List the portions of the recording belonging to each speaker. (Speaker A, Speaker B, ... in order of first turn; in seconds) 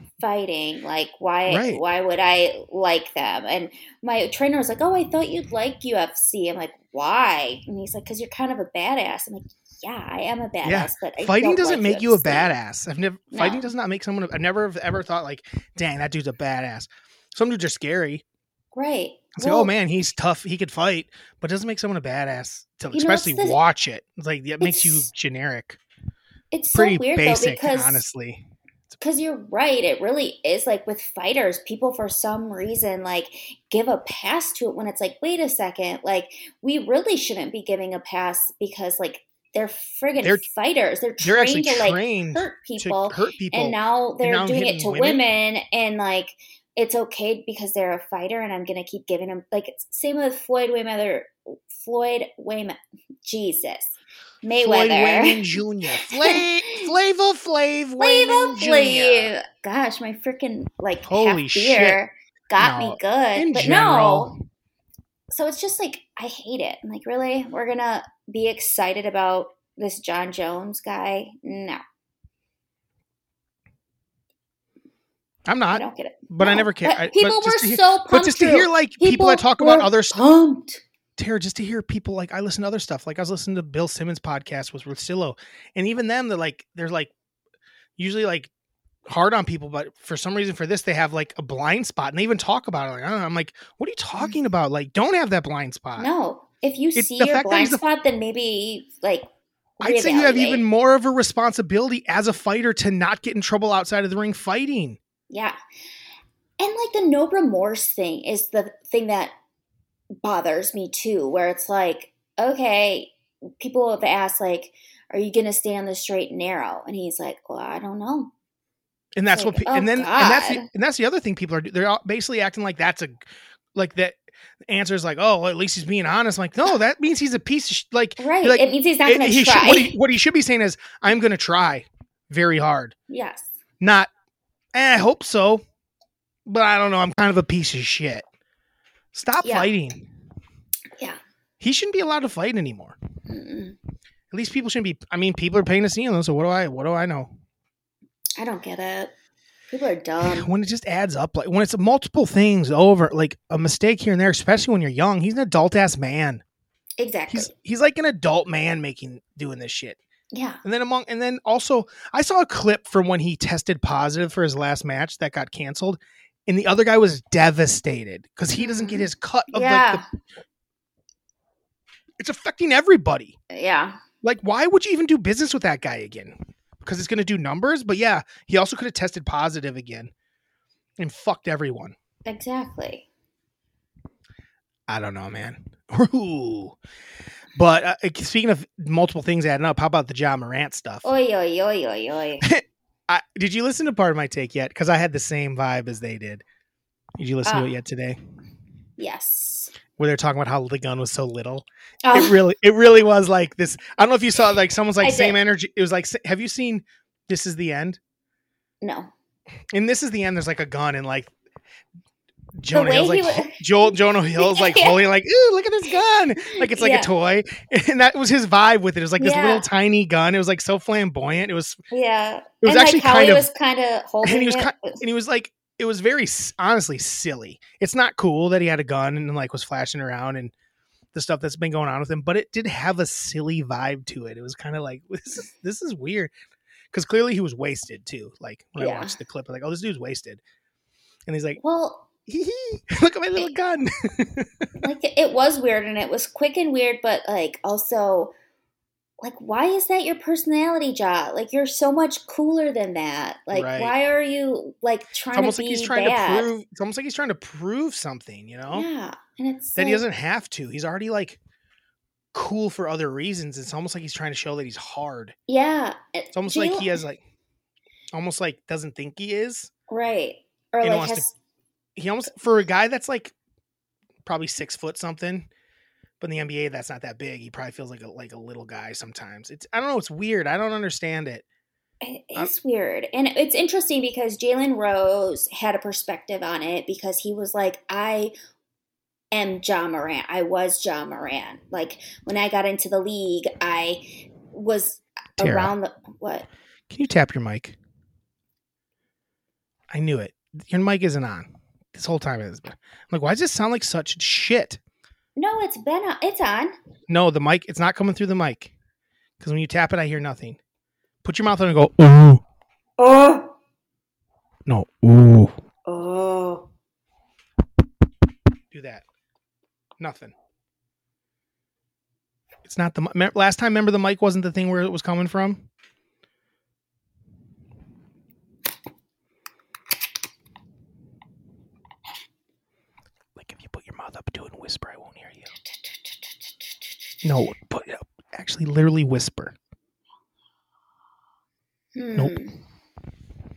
Speaker A: 0.2-12.5, 13.3-13.6, 18.7-19.7, 22.9-23.6, 24.6-25.1, 26.5-28.0, 29.0-53.9, 54.4-55.4, 56.0-56.9, 58.0-64.3, 65.3-71.8, 75.7-80.8, 96.0-99.3, 99.8-100.6, 105.3-105.5, 106.6-109.3, 110.2-118.3, 119.3-120.6, 128.2-129.9, 133.1-133.5, 139.4-139.7, 143.3-143.8, 148.4-149.1, 149.7-150.5, 157.0-157.5, 160.3-160.6, 168.6-170.0, 173.5-174.0, 182.2-183.0, 191.0-192.4, 197.4-197.8, 199.0-199.7, 202.0-202.4, 205.0-205.4, 208.8-209.1, 212.7-215.0, 216.5-217.1, 219.2-219.6, 221.9-225.0, 238.8-239.1, 241.6-242.1, 244.8-248.3, 249.2-256.5, 258.7-260.0, 265.5-267.0, 269.9-271.3, 282.0-288.3, 289.3-296.4, 305.4-306.7, 313.0-313.4, 315.9-316.6, 341.9-342.5
Speaker B: 1.5-1.8, 10.6-18.2, 19.4-25.8, 26.7-29.0, 41.2-45.2, 54.5-59.3, 61.0-62.0, 62.6-64.3, 75.5-80.2, 81.2-87.1, 88.0-88.5, 89.1-96.1, 96.9-97.8, 99.8-105.0, 119.2-123.2, 123.8-132.9, 133.8-134.1, 134.7-135.6, 136.4-138.2, 139.1-140.1, 141.6-143.0, 144.3-147.3, 150.2-156.4, 157.3-160.0, 160.6-170.0, 172.2-173.3, 174.2-180.1, 181.0-181.9, 184.9-186.8, 187.6-191.1, 192.4-196.4, 197.2-198.2, 199.9-208.0, 209.7-211.3, 212.6-221.8, 222.6-223.5, 224.2-230.5, 231.1-236.3, 236.9-240.4, 241.3-241.6, 242.2-244.5, 253.5-253.9, 255.3-258.9, 259.8-261.4, 262.3-265.4, 266.3-267.2, 268.1-269.7, 270.8-271.3, 271.9-273.3, 274.2-275.5, 276.2-281.4, 295.4-295.7, 296.9-297.8, 299.9-304.8, 307.1-308.7, 309.4-310.6, 311.2-312.4, 314.7-315.5, 318.7-319.0, 320.0-320.3, 322.6-325.7, 333.4-335.5, 337.2-339.5, 342.1-342.4